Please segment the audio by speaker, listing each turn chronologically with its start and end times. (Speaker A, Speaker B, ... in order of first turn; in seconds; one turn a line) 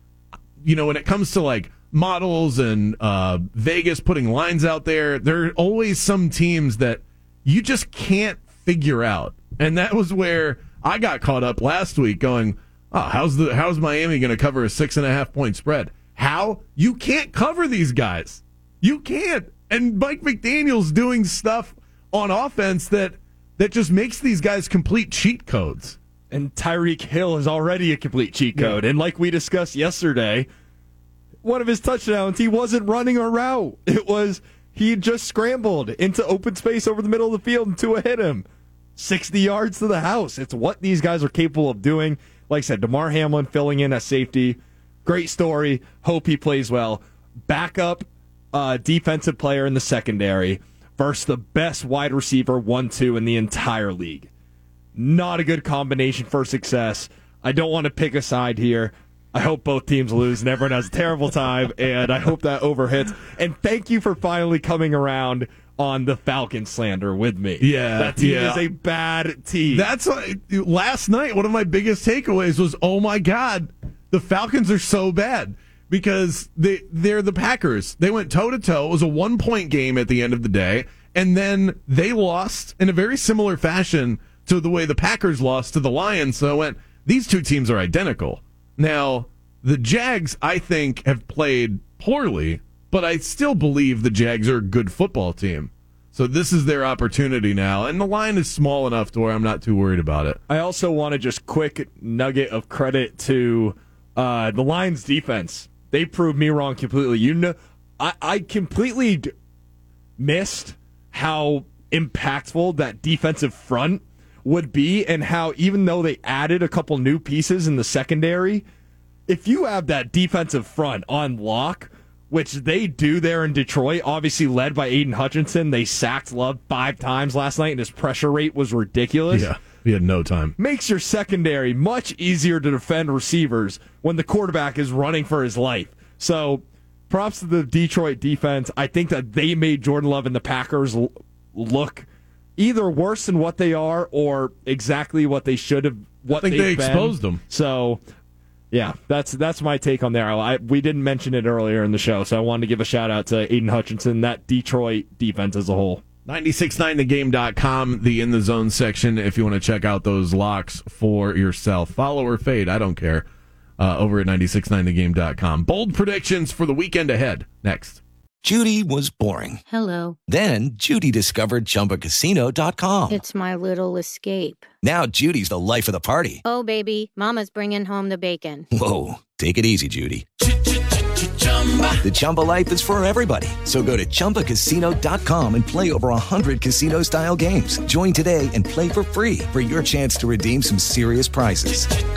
Speaker A: 0.6-26.0
Speaker B: 26.3-30.5
Speaker B: 31.4-38.4
Speaker B: 39.0-54.3
Speaker B: 54.9-69.9
Speaker A: 67.6-68.6
Speaker A: 69.7-100.4
Speaker B: 100.5-109.3
Speaker B: 110.2-118.7
Speaker B: 119.3-129.5
Speaker A: 129.3-130.5
Speaker B: 130.6-142.1
Speaker B: 142.6-148.0
Speaker A: 146.3-147.4
Speaker B: 148.7-156.0
Speaker A: 156.2-163.2
Speaker A: 163.8-168.0
Speaker C: 168.4-169.6
Speaker D: 169.7-170.2
Speaker C: 170.2-173.2
Speaker D: 173.1-174.7
Speaker C: 174.8-176.4
Speaker D: 176.4-178.7
Speaker C: 178.7-180.2
Speaker C: 181.9-192.0